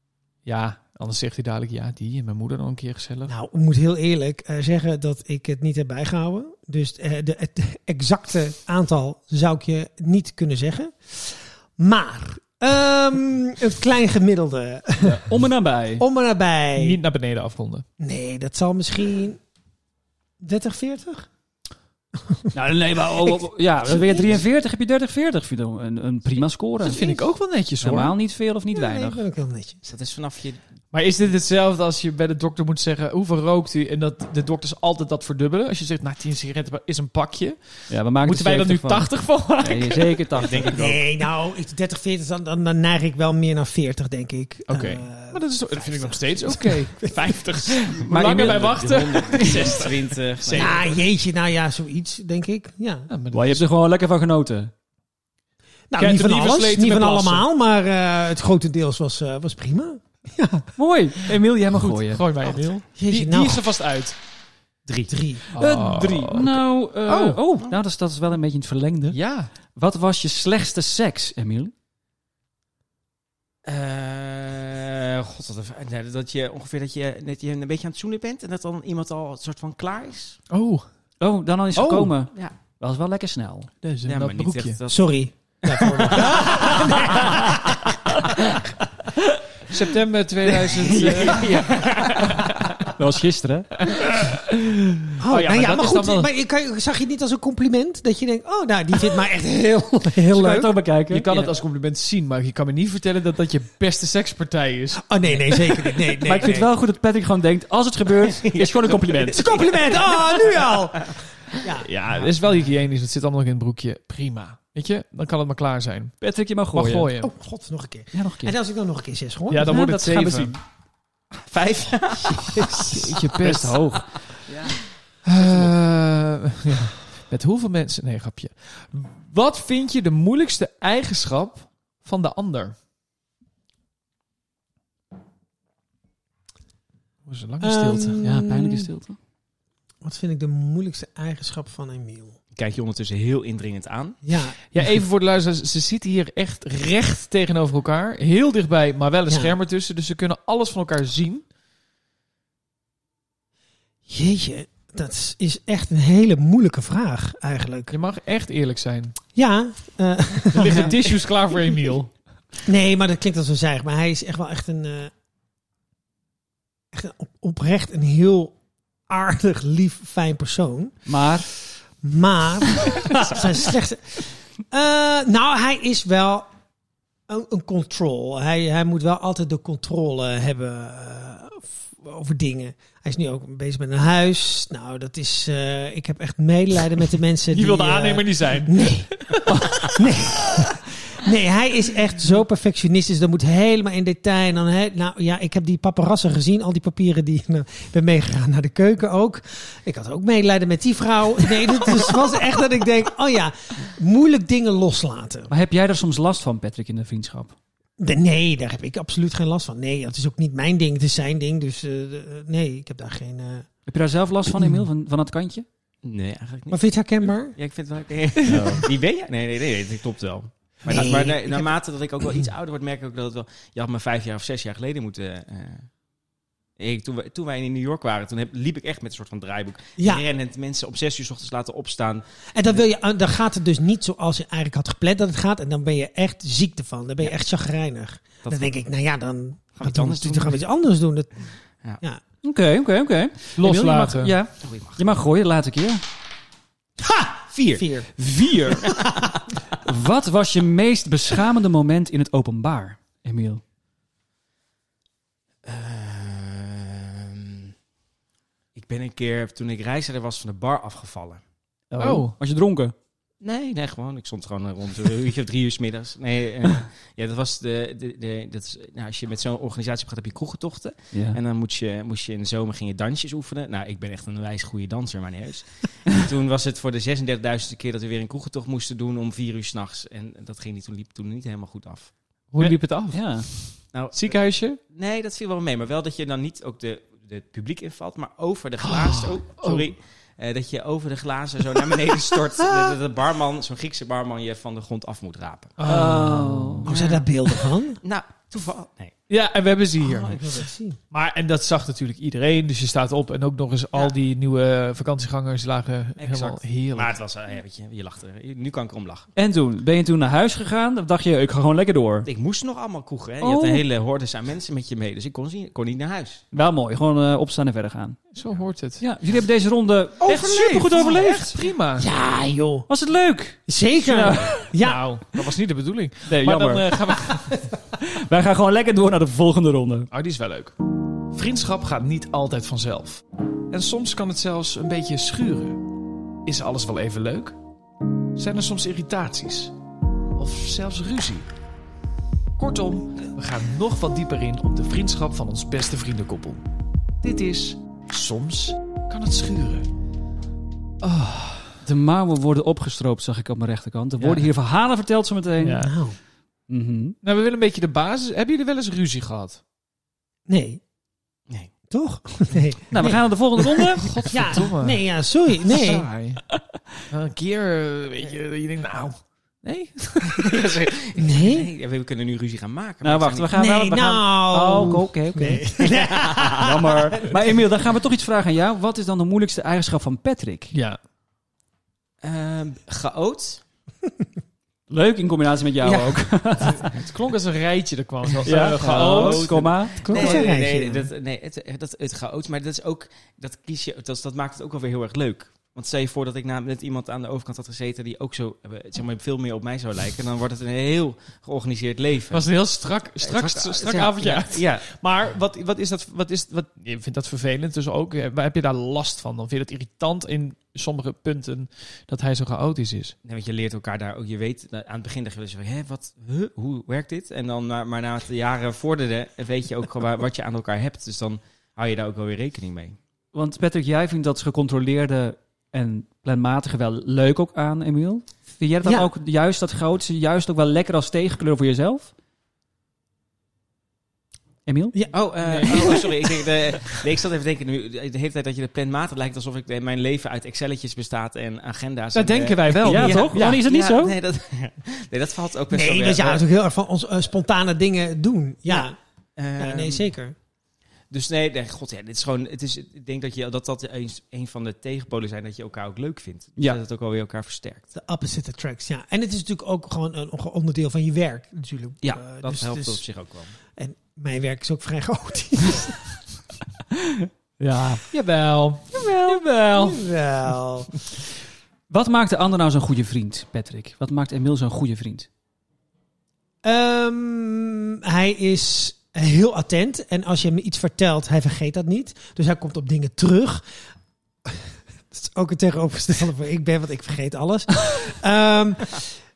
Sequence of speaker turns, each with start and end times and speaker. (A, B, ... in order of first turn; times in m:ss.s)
0:00.4-0:03.3 A
0:03.3-0:15.3 B
0:15.0-0:16.0 C
0:16.0-0:17.0 B
0:16.8-0:17.8 A
0:18.0-0:19.4 B
0:20.4-0:21.3 B
0:22.5-0:27.0 C
0:23.9-0:24.3 B
0:26.8-0:28.1 A
0:26.8-0:27.2 B
0:27.8-0:29.2 C
0:28.7-0:29.8 B
0:29.8-0:30.6 D
0:30.9-0:40.7 A
0:37.9-0:41.0 C
0:40.4-0:40.8 D
0:40.6-0:47.8 B
0:44.7-0:50.8 A
0:47.7-0:51.0 D
0:48.2-0:48.7 C
0:50.5-0:53.1 B
0:53.1-0:53.6 A
0:53.3-0:54.7 C
0:55.9-1:00.7 B
0:56.0-0:57.4 A
1:00.8-1:02.2 C
1:01.6-1:04.1 A
1:03.0-1:03.6 B
1:04.8-1:05.1 D
1:05.1-1:05.4 B
1:05.5-1:07.4 A
1:05.5-1:11.7 C
1:09.1-1:09.5 A
1:13.6-1:20.4 D
1:20.5-1:20.9 A
1:21.2-1:23.7 C
1:21.8-1:22.1 A
1:23.8-1:24.8 A
1:24.0-1:25.1 D
1:24.9-1:27.6 B
1:25.6-1:27.4 D
1:26.2-1:26.6 A
1:27.1-1:27.6 C
1:29.7-1:32.7 A
1:30.4-1:32.8 D
1:32.8-1:33.7 C
1:33.8-1:36.3 A
1:35.2-1:40.7 B
1:40.3-1:41.5 C
1:41.1-1:45.0 A
1:45.0-1:46.7 B
1:46.2-1:49.6 C
1:48.3-1:51.1 D
1:49.3-1:52.3 B
1:51.8-1:56.2 A
1:56.2-1:57.1 C
1:56.7-1:57.3 A
1:57.2-1:59.8 B
1:58.1-1:58.5 C
1:59.5-2:00.5 A
1:59.6-2:00.6 C
2:01.3-2:03.1 D
2:02.2-2:03.2 B
2:02.8-2:03.8 A
2:03.3-2:04.8 C
2:05.2-2:12.7 A
2:17.2-2:18.3 A
2:17.6-2:18.9 B
2:18.2-2:19.2 C
2:20.0-2:22.4 B
2:22.5-2:24.3 D
2:24.2-2:24.6 B
2:24.7-2:31.4 A
2:29.3-2:29.5 B
2:34.1-2:37.9 B
2:37.9-2:39.2 A
2:39.3-2:41.1 B
2:40.5-2:42.1 A
2:42.6-2:45.1 B
2:46.9-2:48.5 B
2:49.1-2:51.0 B
2:51.1-2:51.5 C
2:52.0-2:56.5 B
2:57.3-3:09.2 B
3:07.5-3:09.9 A
3:09.8-3:25.5 B
3:25.5-3:27.6 C
3:28.0-3:33.7 B
3:33.9-3:35.6 C
3:36.0-3:45.9 D
3:36.7-3:37.6 B
3:38.4-3:38.8 C
3:40.9-3:41.7 B
3:46.8-3:52.8 D
3:50.0-3:50.2 B
3:52.5-4:01.5 B
3:58.4-3:58.7 D
3:59.8-4:00.6 D
4:02.4-4:06.0 C
4:03.6-4:04.3 A
4:04.6-4:05.2 D
4:07.0-4:08.1 B
4:07.5-4:07.8 D
4:08.2-4:09.0 C
4:09.8-4:13.6 C
4:15.6-4:17.7 D
4:18.7-4:21.4 D
4:21.9-4:22.9 C
4:22.0-4:22.3 A
4:23.4-4:42.1 D
4:31.1-4:31.4 C
4:42.5-4:44.8 A
4:42.6-4:43.5 C
4:43.9-4:55.7 D
4:48.8-4:49.9 A
4:55.8-4:57.2 A
4:55.8-4:56.9 C
4:56.8-4:58.0 B
4:58.0-4:59.1 D
4:59.3-5:00.6 A
5:00.0-5:01.0 B
5:01.1-5:07.1 A
5:06.2-5:09.3 D
5:09.4-5:12.3 C
5:12.2-5:16.4 D
5:13.4-5:13.8 C
5:16.5-5:18.2 C
5:18.3-5:19.0 A
5:19.0-5:21.6 C
5:20.2-5:21.2 B
5:20.2-5:22.1 A
5:22.0-5:22.9 B
5:22.9-5:24.7 C
5:23.7-5:25.0 B
5:24.8-5:27.6 A
5:26.3-5:27.1 C
5:28.0-5:30.1 C
5:30.1-5:30.7 A
5:31.3-5:35.8 A
5:36.4-5:37.6 A
5:38.3-5:39.7 A
5:40.4-5:41.5 A
5:42.6-5:46.6 A
5:47.2-5:49.9 A
5:51.0-5:51.8 A
5:51.8-5:55.9 C
5:54.2-5:54.5 A
5:55.6-5:55.9 A
5:55.8-5:56.2 B
5:56.7-5:57.2 C
5:57.2-5:59.6 A
6:00.5-6:00.8 B
6:01.9-6:06.1 B
6:02.9-6:04.2 C
6:04.0-6:05.0 A
6:05.6-6:06.4 A
6:07.1-6:10.8 A
6:10.2-6:13.5 D
6:11.2-6:11.7 B
6:13.0-6:15.6 C
6:13.5-6:17.4 B
6:15.9-6:16.7 D
6:16.5-6:20.7 C
6:20.7-6:21.0 A
6:22.2-6:23.6 D
6:24.9-6:26.9 C
6:25.8-6:26.2 B
6:26.6-6:30.4 A
6:28.4-6:30.1 C
6:28.7-6:42.5 D
6:30.0-6:31.1 B
6:42.3-6:53.1 A
6:43.2-6:44.8 D
6:53.2-7:03.0 D
7:03.3-7:12.1 C
7:08.8-7:09.1 B
7:14.6-7:15.0 C
7:14.9-7:16.3 B
7:15.1-7:26.4 D
7:15.4-7:16.1 A
7:22.1-7:23.6 A
7:22.8-7:24.1 C
7:25.7-7:29.0 B
7:28.7-7:30.1 D
7:29.6-7:30.3 B
7:31.1-7:37.8 D
7:37.9-7:43.0 B
7:42.0-7:43.5 D
7:43.8-7:46.0 B
7:47.0-7:48.0 C
7:48.1-7:50.0 A
7:48.9-7:49.4 C
7:49.7-7:50.9 B
7:51.9-7:55.3 C
7:56.6-8:03.6 B
8:04.4-8:09.1 B